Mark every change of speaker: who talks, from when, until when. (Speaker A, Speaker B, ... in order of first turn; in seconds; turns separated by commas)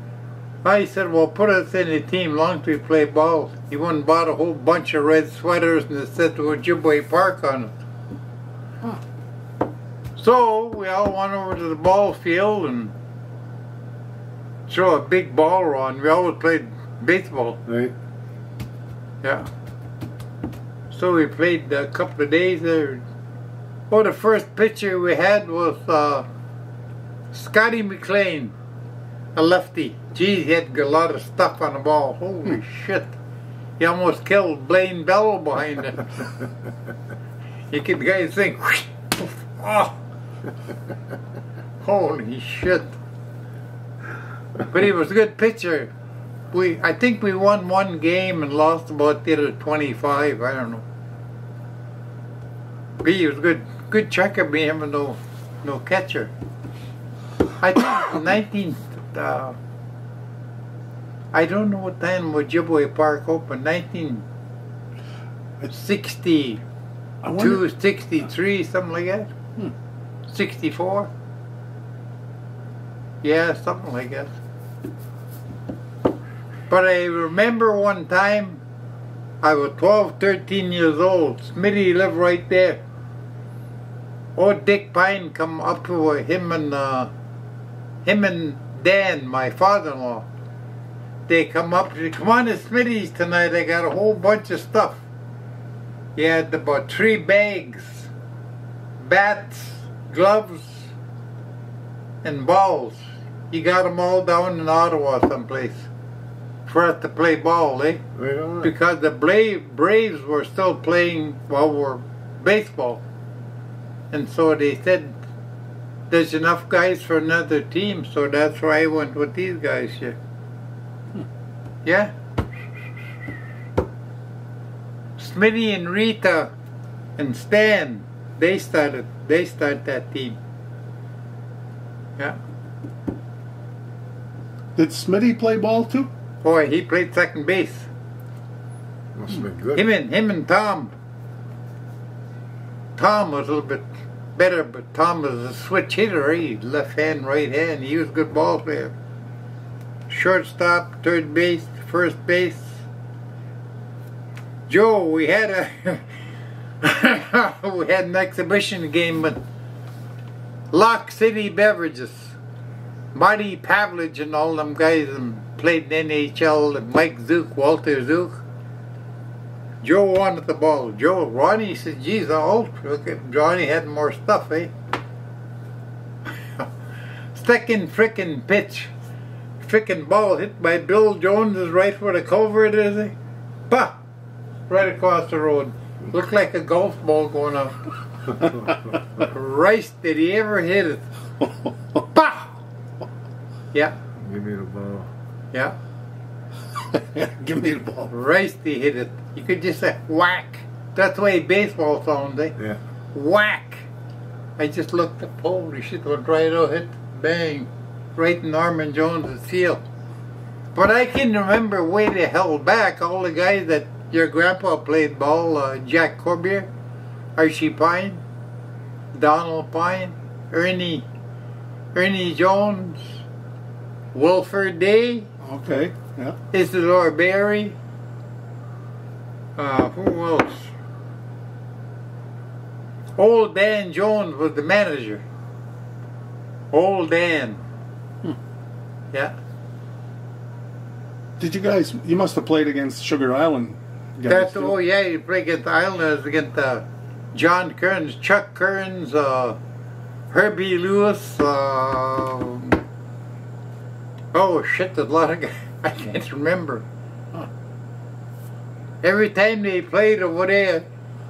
Speaker A: 0.6-7.7, Speaker A: 10.2-12.9, Speaker A: 14.7-17.6, Speaker B: 17.7-17.9, Speaker A: 19.2-19.5, Speaker A: 20.9-23.0, Speaker A: 23.9-26.2, Speaker A: 27.3-28.5, Speaker A: 29.4-33.1, Speaker A: 33.8-36.2, Speaker A: 37.7-40.0, Speaker A: 41.8-42.9, Speaker A: 44.7-45.9, Speaker A: 46.5-50.9, Speaker A: 53.0-56.3, Speaker A: 57.6-59.6, Speaker A: 61.3-64.2, Speaker A: 65.7-66.6, Speaker C: 67.2-67.7, Speaker A: 67.4-69.3, Speaker A: 70.3-71.1, Speaker A: 73.2-74.4, Speaker A: 76.7-78.6, Speaker A: 79.4-82.8, Speaker A: 84.4-87.1, Speaker A: 88.0-90.3, Speaker A: 91.3-95.0, Speaker A: 96.2-98.1, Speaker A: 99.0-100.9, Speaker A: 102.2-105.9, Speaker A: 106.7-108.0, Speaker B: 108.2-108.7, Speaker A: 108.6-113.0, Speaker A: 114.1-115.2, Speaker A: 116.1-120.2, Speaker A: 121.8-122.1, Speaker A: 125.2-126.5, Speaker A: 127.2-130.4, Speaker C: 134.8-136.1, Speaker A: 136.4-137.9, Speaker B: 139.2-139.8, Speaker A: 139.8-140.9, Speaker A: 143.0-148.9, Speaker A: 150.1-152.8, Speaker A: 154.7-156.1, Speaker A: 156.8-159.4, Speaker A: 160.7-162.3, Speaker A: 163.1-168.4, Speaker A: 169.8-174.7, Speaker A: 177.3-178.9, Speaker A: 179.6-183.1, Speaker A: 183.7-184.0, Speaker A: 184.7-187.8, Speaker A: 189.2-191.0, Speaker A: 192.1-192.6, Speaker B: 194.2-195.1, Speaker C: 196.8-198.1, Speaker A: 198.1-202.6, Speaker A: 203.1-203.9, Speaker A: 204.6-209.8, Speaker A: 210.7-216.7, Speaker A: 217.4-218.2, Speaker A: 219.1-221.1, Speaker A: 221.9-223.2, Speaker A: 224.1-225.3, Speaker C: 225.4-226.4, Speaker A: 226.5-227.8, Speaker A: 229.6-230.7, Speaker A: 233.2-235.2, Speaker A: 236.7-237.6, Speaker C: 241.4-244.8, Speaker A: 244.3-249.6, Speaker A: 250.3-252.8, Speaker A: 254.3-256.9, Speaker A: 259.0-260.9